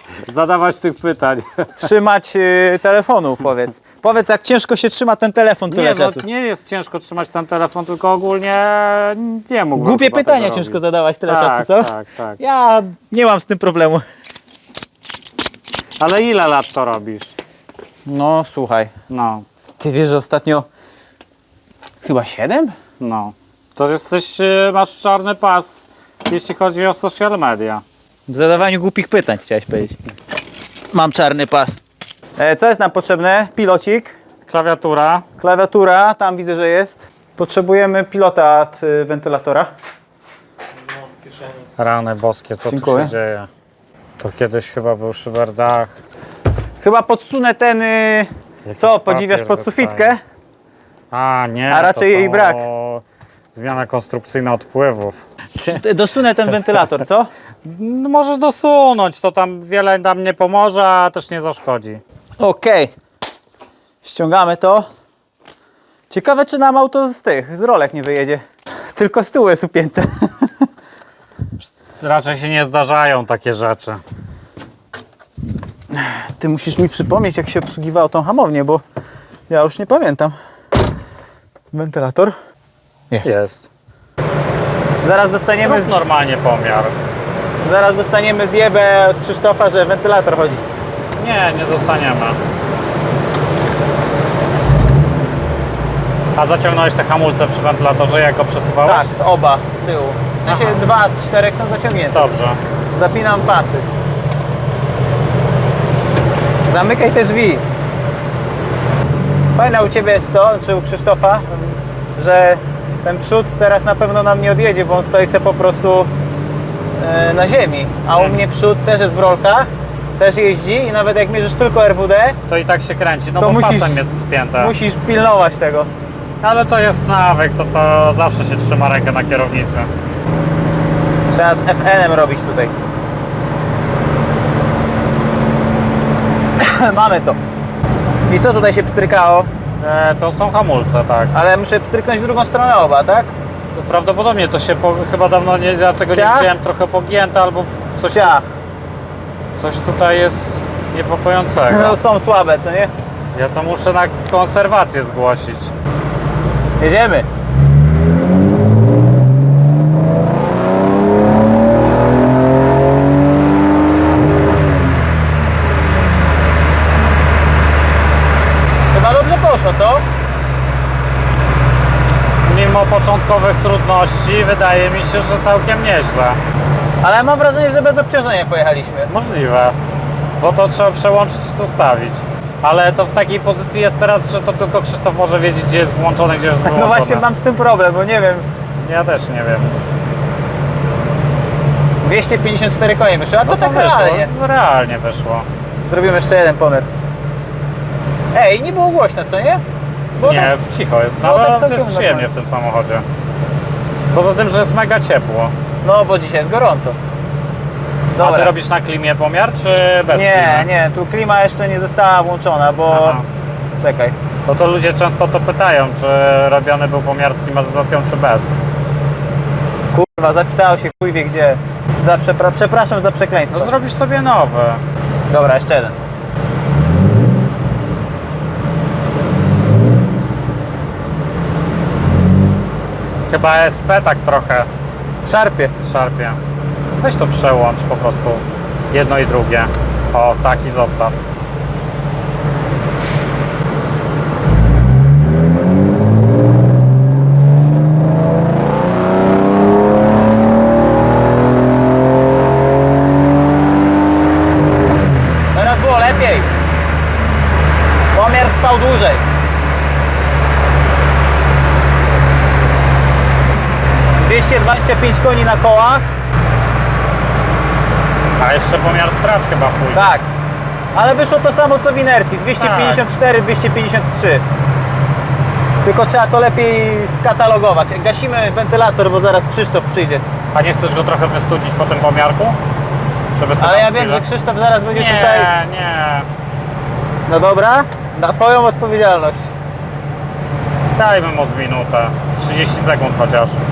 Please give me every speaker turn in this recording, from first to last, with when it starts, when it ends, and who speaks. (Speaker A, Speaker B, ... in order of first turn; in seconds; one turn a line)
Speaker A: 0.2-1.9
Speaker B: 1.8-6.2
Speaker A: 5.7-12.4
Speaker B: 9.8-14.0
Speaker A: 16.0-17.3
Speaker B: 18.1-18.9
Speaker A: 19.1-19.4
Speaker B: 19.8-20.7
Speaker B: 22.0-22.7
Speaker A: 23.0-27.8
Speaker B: 28.3-30.0
Speaker B: 30.9-31.8
Speaker B: 32.4-34.1
Speaker A: 34.5-35.2
Speaker B: 35.4-39.7
Speaker A: 41.8-43.5
Speaker B: 42.7-43.1
Speaker A: 44.2-45.9
Speaker B: 46.8-50.2
Speaker A: 48.6-50.1
Speaker A: 51.1-55.2
Speaker B: 51.7-52.6
Speaker B: 55.6-57.3
Speaker A: 57.6-62.0
Speaker B: 62.4-62.9
Speaker B: 64.0-64.9
Speaker B: 66.1-70.7
Speaker A: 71.6-74.0
Speaker B: 75.9-78.8
Speaker B: 79.5-80.3
Speaker B: 81.7-82.3
Speaker A: 83.2-83.7
Speaker B: 85.0-85.9
Speaker A: 85.5-86.9
Speaker B: 87.6-90.6
Speaker A: 91.2-92.4
Speaker A: 96.3-99.1
Speaker B: 98.8-102.3
Speaker A: 100.5-100.8
Speaker A: 102.1-102.6
Speaker B: 102.9-103.8
Speaker B: 106.7-107.6
Speaker B: 109.5-116.1
Speaker B: 117.0-122.4
Speaker A: 122.5-124.7
Speaker B: 123.4-124.0
Speaker B: 124.6-125.9
Speaker A: 126.4-129.9
Speaker B: 131.3-132.7
Speaker B: 136.6-137.4
Speaker B: 138.3-139.5
Speaker A: 139.8-141.3
Speaker B: 141.3-143.3
Speaker A: 143.7-148.3
Speaker B: 146.1-146.5
Speaker B: 148.1-148.4
Speaker A: 149.5-152.0
Speaker B: 151.7-152.9
Speaker A: 153.3-155.7
Speaker B: 156.8-157.3
Speaker B: 168.9-170.0
Speaker A: 172.4-176.4
Speaker B: 177.0-179.1
Speaker A: 179.1-179.8
Speaker A: 180.4-187.2
Speaker B: 186.6-188.5
Speaker A: 188.8-189.8
Speaker B: 192.0-194.3
Speaker A: 193.4-195.5
Speaker B: 195.8-196.9
Speaker B: 198.3-199.6
Speaker B: 200.2-200.5
Speaker A: 200.2-203.0
Speaker B: 201.2-202.3
Speaker A: 204.1-205.5
Speaker B: 205.8-207.0
Speaker B: 208.1-208.5
Speaker A: 208.2-210.7
Speaker B: 210.1-213.2
Speaker A: 212.9-213.2
Speaker B: 213.8-214.1
Speaker A: 214.5-218.5
Speaker B: 219.9-223.7
Speaker A: 223.5-224.8
Speaker B: 225.3-226.0
Speaker A: 233.3-234.7
Speaker B: 235.2-235.7
Speaker A: 235.8-236.4
Speaker A: 237.0-241.2
Speaker B: 255.5-256.5
Speaker B: 258.1-259.2
Speaker B: 264.2-266.1
Speaker A: 268.4-270.1
Speaker B: 269.9-270.3
Speaker B: 270.9-274.4
Speaker A: 272.6-273.0
Speaker B: 275.8-280.2
Speaker A: 280.5-282.6
Speaker A: 283.3-284.2
Speaker B: 283.6-285.5
Speaker A: 284.9-286.3
Speaker B: 287.3-289.5
Speaker A: 290.9-293.6